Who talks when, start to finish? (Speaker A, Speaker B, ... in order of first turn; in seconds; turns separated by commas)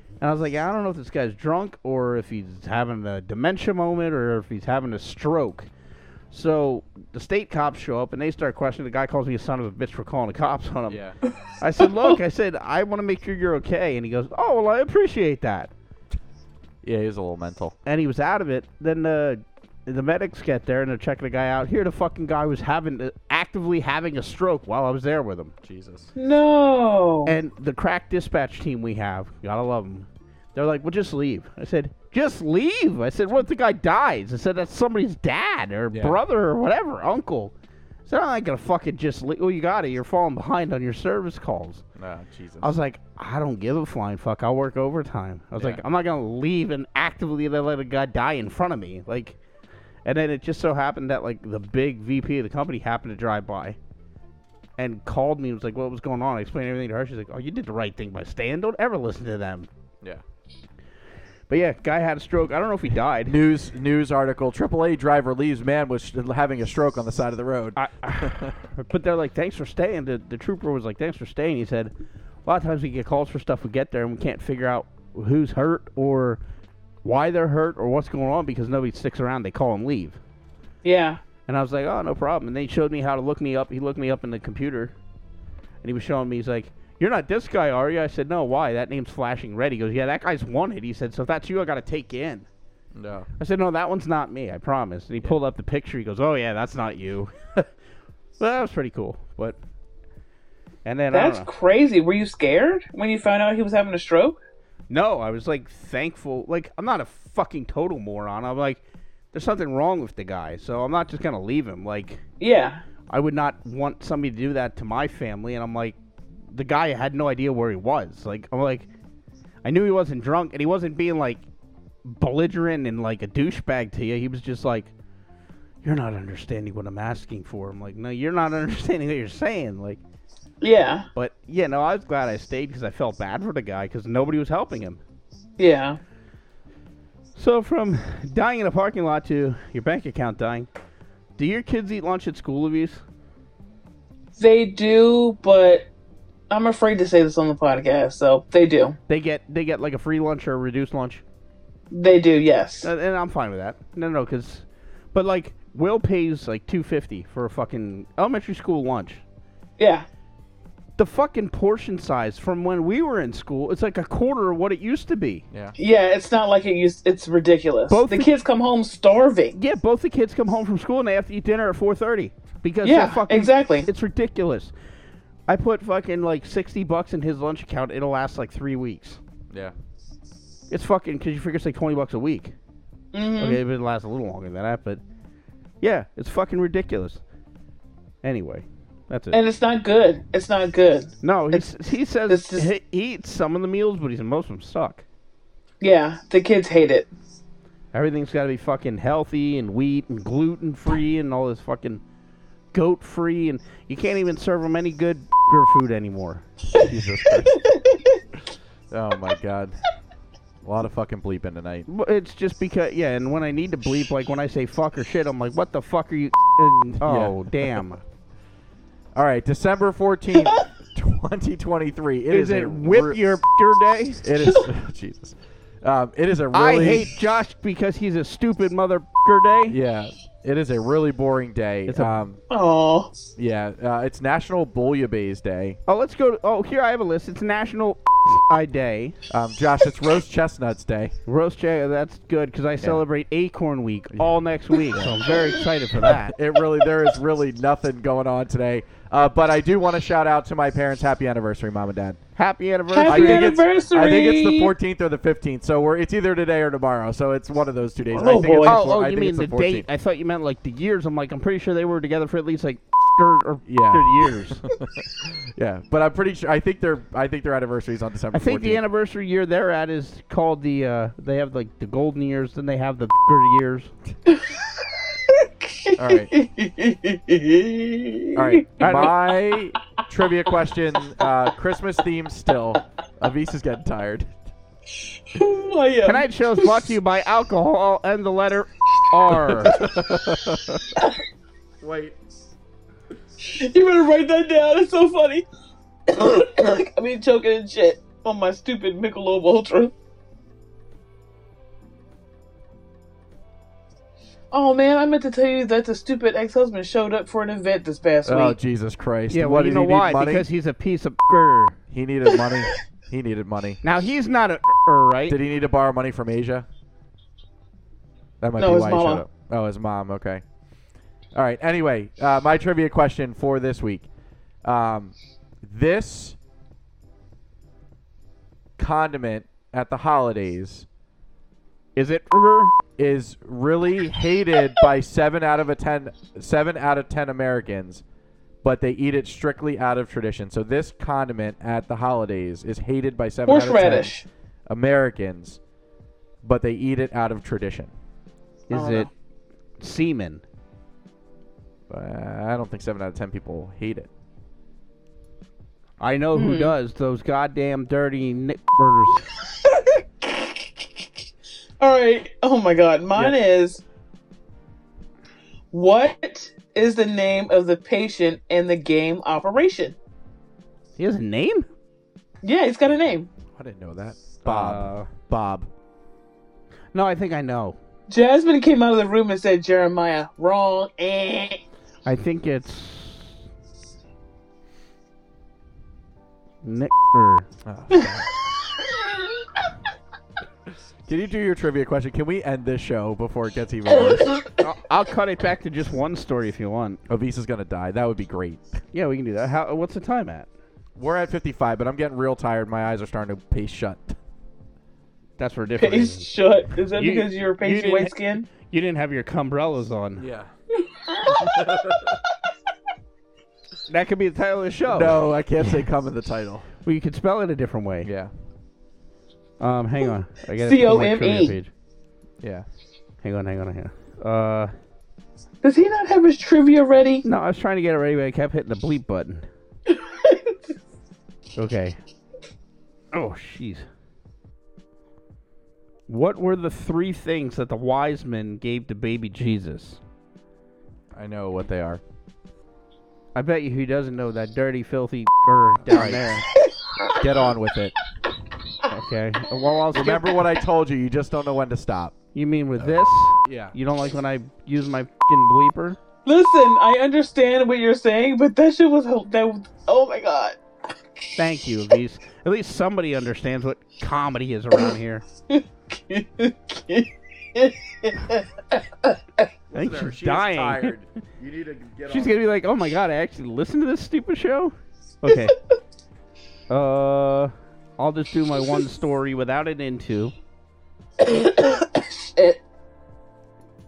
Speaker A: 0.2-5.7, Speaker A: 6.3-11.0, Speaker B: 10.9-11.2, Speaker A: 11.6-15.7, Speaker B: 16.8-17.7, Speaker A: 17.8-25.5, Speaker B: 25.6-26.1, Speaker C: 26.1-27.3, Speaker A: 27.2-37.5, Speaker B: 35.9-36.2, Speaker A: 38.1-41.8, Speaker B: 42.0-42.7, Speaker A: 42.6-49.4, Speaker B: 45.6-45.8, Speaker A: 50.0-53.8, Speaker A: 54.8-59.7, Speaker A: 61.5-63.3, Speaker B: 63.2-68.5, Speaker A: 67.8-71.9, Speaker A: 72.4-76.4, Speaker A: 77.0-80.2, Speaker C: 80.8-81.2, Speaker A: 81.5-84.9, Speaker A: 85.8-92.5, Speaker B: 92.9-93.3, Speaker A: 93.4-97.7, Speaker A: 98.4-99.5, Speaker A: 100.8-101.5, Speaker C: 101.1-104.4, Speaker A: 104.9-108.8, Speaker A: 109.3-112.2, Speaker C: 112.4-112.8, Speaker A: 113.1-116.0, Speaker A: 116.5-118.9, Speaker A: 119.6-121.4, Speaker A: 122.0-124.9, Speaker A: 125.8-130.0, Speaker C: 130.6-131.1, Speaker A: 131.1-135.0, Speaker C: 135.6-136.0, Speaker A: 137.3-140.7, Speaker A: 141.4-143.0, Speaker C: 144.3-145.9, Speaker C: 146.5-149.0, Speaker A: 149.1-151.2, Speaker C: 151.9-152.9, Speaker A: 152.8-159.2, Speaker C: 159.8-160.1, Speaker A: 161.0-165.4, Speaker C: 165.8-169.6, Speaker A: 167.9-168.3, Speaker A: 169.5-174.7, Speaker C: 172.8-173.9, Speaker A: 175.5-179.2, Speaker A: 180.7-182.5, Speaker C: 183.1-183.6, Speaker A: 183.4-185.0, Speaker A: 185.8-187.2, Speaker A: 188.2-189.4, Speaker C: 189.3-191.6, Speaker A: 191.2-195.0, Speaker C: 192.3-192.7, Speaker C: 195.8-197.1, Speaker A: 197.9-202.0, Speaker A: 202.7-206.4, Speaker B: 206.8-207.5, Speaker C: 207.6-208.1, Speaker B: 208.9-209.8, Speaker B: 210.6-211.9, Speaker A: 211.9-218.0, Speaker B: 217.0-217.8, Speaker B: 219.1-223.2, Speaker A: 222.3-224.2, Speaker B: 224.2-227.1, Speaker A: 226.5-229.8, Speaker B: 229.7-232.4, Speaker A: 231.9-232.1, Speaker C: 232.5-233.1, Speaker B: 233.3-235.8, Speaker A: 235.9-239.2, Speaker B: 239.3-241.2, Speaker A: 241.3-246.3, Speaker B: 244.9-245.2, Speaker B: 246.2-252.2, Speaker A: 252.3-253.6, Speaker C: 252.9-254.7, Speaker B: 253.0-259.9, Speaker C: 258.1-258.8, Speaker A: 258.6-264.6, Speaker B: 263.6-268.8, Speaker A: 268.3-273.9, Speaker C: 274.3-274.6, Speaker C: 275.3-279.1, Speaker B: 275.9-276.3, Speaker B: 278.3-284.3, Speaker A: 278.8-279.1, Speaker C: 285.3-286.9, Speaker A: 286.0-289.9, Speaker B: 289.6-290.8, Speaker B: 291.8-292.2, Speaker C: 293.4-295.4, Speaker C: 296.1-299.9, Speaker C: 304.5-308.6, Speaker B: 308.2-310.5, Speaker A: 309.3-311.8, Speaker B: 311.9-313.8, Speaker A: 313.8-315.4, Speaker B: 315.3-316.7, Speaker B: 318.4-320.4, Speaker C: 318.6-319.2, Speaker B: 321.3-324.1, Speaker B: 324.6-326.4, Speaker B: 328.8-330.9, Speaker A: 331.9-332.7, Speaker B: 333.0-338.0, Speaker B: 338.6-344.1, Speaker C: 343.5-344.2, Speaker B: 344.7-345.6, Speaker B: 346.4-347.9, Speaker A: 348.7-349.1, Speaker C: 348.7-349.1, Speaker A: 349.8-350.4, Speaker B: 351.9-354.1, Speaker A: 356.0-359.2, Speaker C: 356.3-356.7, Speaker C: 359.6-360.6, Speaker C: 361.8-363.8, Speaker C: 365.7-369.9, Speaker A: 371.0-371.7, Speaker C: 372.4-373.3, Speaker B: 373.6-375.7, Speaker A: 374.4-375.1, Speaker A: 376.9-377.8, Speaker C: 378.1-381.6, Speaker A: 382.0-383.3, Speaker A: 386.6-387.5, Speaker B: 387.6-388.3, Speaker B: 391.1-394.4, Speaker A: 394.6-397.0, Speaker B: 397.1-398.8, Speaker A: 398.9-400.5, Speaker B: 401.0-404.2, Speaker A: 405.4-406.3, Speaker C: 405.8-408.5, Speaker A: 406.9-410.2, Speaker B: 410.2-410.5, Speaker C: 410.9-411.6, Speaker B: 411.3-412.2, Speaker A: 413.9-415.8, Speaker B: 414.9-416.7, Speaker A: 416.8-418.1, Speaker B: 418.0-418.3, Speaker A: 419.6-421.7, Speaker C: 420.6-421.6, Speaker B: 422.4-422.6, Speaker A: 423.2-424.7, Speaker C: 425.6-427.2, Speaker A: 427.2-429.4, Speaker C: 429.9-430.6, Speaker A: 431.6-432.0, Speaker A: 433.1-433.8, Speaker A: 436.1-440.0, Speaker B: 441.1-442.0, Speaker A: 443.3-446.4, Speaker B: 445.9-446.4, Speaker B: 447.2-447.9, Speaker A: 448.9-450.4, Speaker B: 449.9-452.2, Speaker A: 452.3-456.0, Speaker B: 452.8-453.7, Speaker C: 456.2-460.6, Speaker A: 461.4-465.2, Speaker C: 465.5-469.2, Speaker B: 469.7-472.4, Speaker A: 469.7-470.9, Speaker A: 472.1-475.6, Speaker A: 476.7-480.3, Speaker C: 481.2-482.6